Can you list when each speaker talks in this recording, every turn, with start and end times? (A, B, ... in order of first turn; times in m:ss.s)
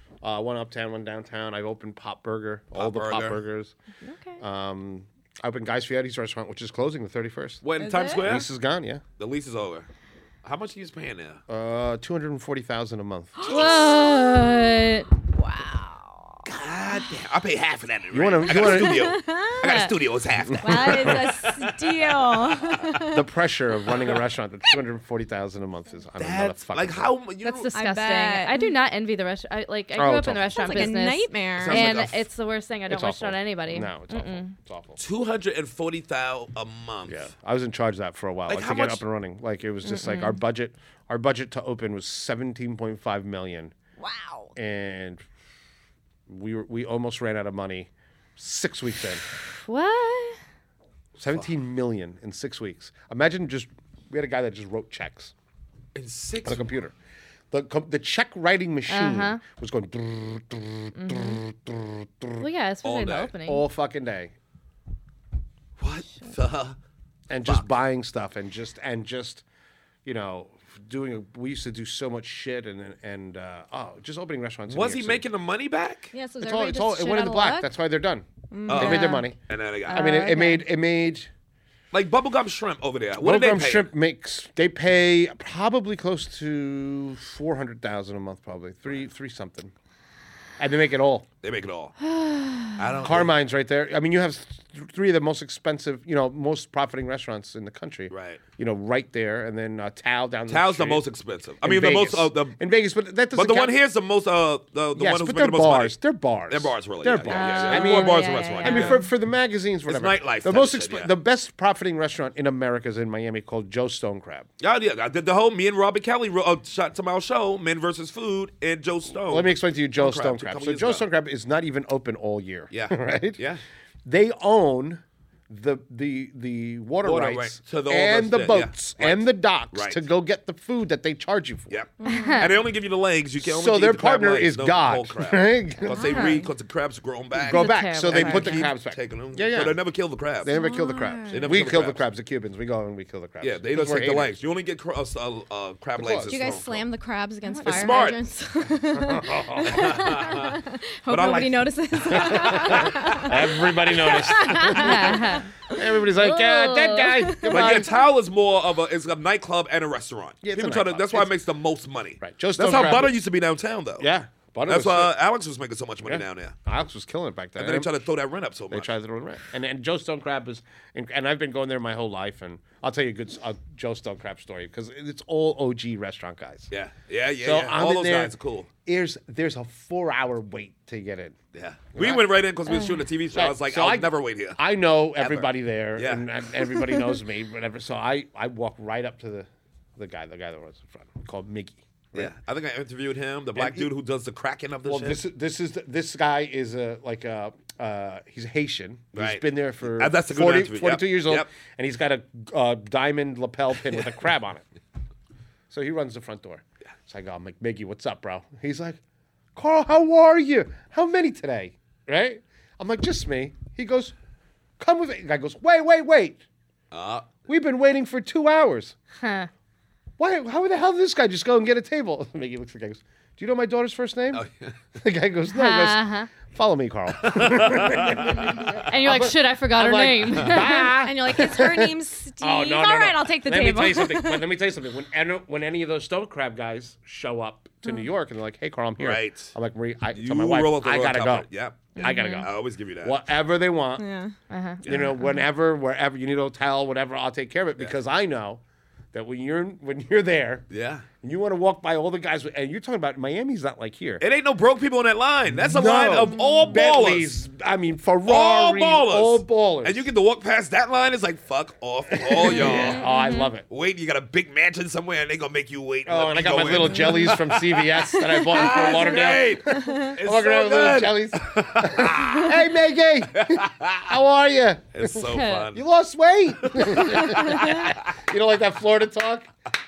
0:00.2-0:03.7 A
0:02.7-0:03.4 B
0:04.0-0:04.4 C
0:04.4-0:07.6 A
0:07.6-0:08.4 B
0:07.8-0:08.3 D
0:08.2-0:09.0 A
0:09.2-0:09.9 B
0:10.4-0:11.4 B
0:11.5-0:13.7 A
0:13.4-0:14.6 D
0:13.5-0:15.1 C
0:15.3-0:16.4 D
0:16.4-0:22.8 B
0:18.1-0:19.2 A
0:18.6-0:19.7 D
0:19.6-0:19.9 C
0:20.5-0:21.3 A
0:20.6-0:23.3 D
0:23.1-0:27.1 A
0:26.2-0:27.7 B
0:27.4-0:34.5 C
0:27.7-0:28.7 D
0:30.0-0:30.6 A
0:30.5-0:31.9 D
0:31.5-0:32.2 B
0:32.9-0:35.0 A
0:35.0-0:37.3 B
0:37.1-0:43.7 A
0:38.5-0:39.0 B
0:39.8-0:40.4 C
0:44.0-0:44.5 D
0:44.6-0:45.2 A
0:46.3-0:49.2 A
0:49.6-0:50.4 C
0:51.2-0:55.3 A
0:55.9-0:56.6 B
0:56.4-0:56.9 A
0:57.5-1:02.4 A
0:58.9-0:59.4 C
1:01.0-1:01.4 C
1:02.4-1:03.6 C
1:02.8-1:03.3 B
1:03.4-1:04.3 A
1:05.8-1:06.8 B
1:07.3-1:09.4 A
1:10.0-1:15.2 A
1:14.7-1:16.1 B
1:16.1-1:17.7 D
1:16.4-1:19.4 A
1:18.5-1:19.2 D
1:18.7-1:20.1 B
1:18.8-1:19.2 C
1:19.9-1:20.6 C
1:19.9-1:21.3 A
1:21.9-1:23.9 B
1:23.2-1:29.7 A
1:30.6-1:31.2 A
1:31.4-1:31.9 B
1:32.0-1:32.8 C
1:32.8-1:33.3 B
1:33.0-1:41.0 A
1:38.1-1:38.4 B
1:40.5-1:42.6 B
1:41.6-1:43.8 A
1:43.3-1:46.0 B
1:44.9-1:54.5 A
1:46.5-1:49.0 B
1:47.3-1:49.1 C
1:49.9-1:51.1 B
1:54.6-2:01.0 B
1:59.3-2:03.4 A
2:02.7-2:03.6 B
2:04.0-2:11.7 A
2:07.0-2:10.0 B
2:11.7-2:20.5 B
2:12.0-2:12.4 D
2:12.0-2:12.5 C
2:13.4-2:16.2 A
2:15.9-2:16.4 D
2:15.9-2:16.4 C
2:17.3-2:19.8 A
2:17.5-2:18.7 C
2:20.4-2:24.3 A
2:20.5-2:21.6 D
2:21.3-2:22.0 B
2:23.4-2:26.9 B
2:26.0-2:26.3 A
2:26.3-2:35.9 D
2:27.4-2:27.9 C
2:27.6-2:28.2 B
2:28.9-2:30.0 A
2:29.6-2:33.3 B
2:32.1-2:37.9 A
2:34.0-2:34.4 B
2:34.7-2:35.5 C
2:36.2-2:37.3 C
2:37.0-2:37.9 D
2:37.5-2:44.1 B
2:40.4-2:41.3 A
2:42.2-2:43.2 A
2:44.0-2:45.1 A
2:44.7-2:46.5 B
2:46.0-2:47.9 A
2:47.6-2:48.9 B
2:48.7-2:56.7 A
2:56.7-2:58.7 B
2:57.4-2:58.3 A
2:58.8-3:01.4 A
3:01.5-3:04.6 B
3:01.9-3:02.2 A
3:03.3-3:12.3 A
3:05.2-3:06.2 B
3:12.1-3:15.2 B
3:13.5-3:13.9 A
3:14.8-3:24.6 A
3:19.1-3:21.5 B
3:25.7-3:29.0 A
3:29.5-3:34.1 A
3:34.8-3:36.4 A
3:36.9-3:37.4 B
3:37.4-3:38.9 A
3:39.2-3:39.5 C
3:40.2-3:44.4 A
3:44.3-3:44.7 B
3:45.0-4:04.0 A
3:45.5-3:46.3 C
3:47.2-3:48.7 B
3:48.7-3:51.0 C
3:51.0-3:54.5 D
3:59.0-3:59.5 B
4:00.1-4:03.2 B
4:02.0-4:02.5 C
4:04.0-4:04.3 D
4:04.5-4:05.4 C
4:04.8-4:05.1 B
4:04.8-4:08.6 A
4:09.1-4:10.6 A
4:10.7-4:11.0 B
4:11.2-4:14.2 A
4:14.2-4:17.4 B
4:15.5-4:20.1 A
4:18.2-4:23.0 B
4:22.1-4:23.6 A
4:22.6-4:23.5 C
4:23.7-4:32.6 B
4:26.0-4:39.5 A
4:28.3-4:30.1 D
4:33.3-4:34.1 B
4:34.9-4:35.8 B
4:35.3-4:35.7 C
4:36.6-4:37.8 B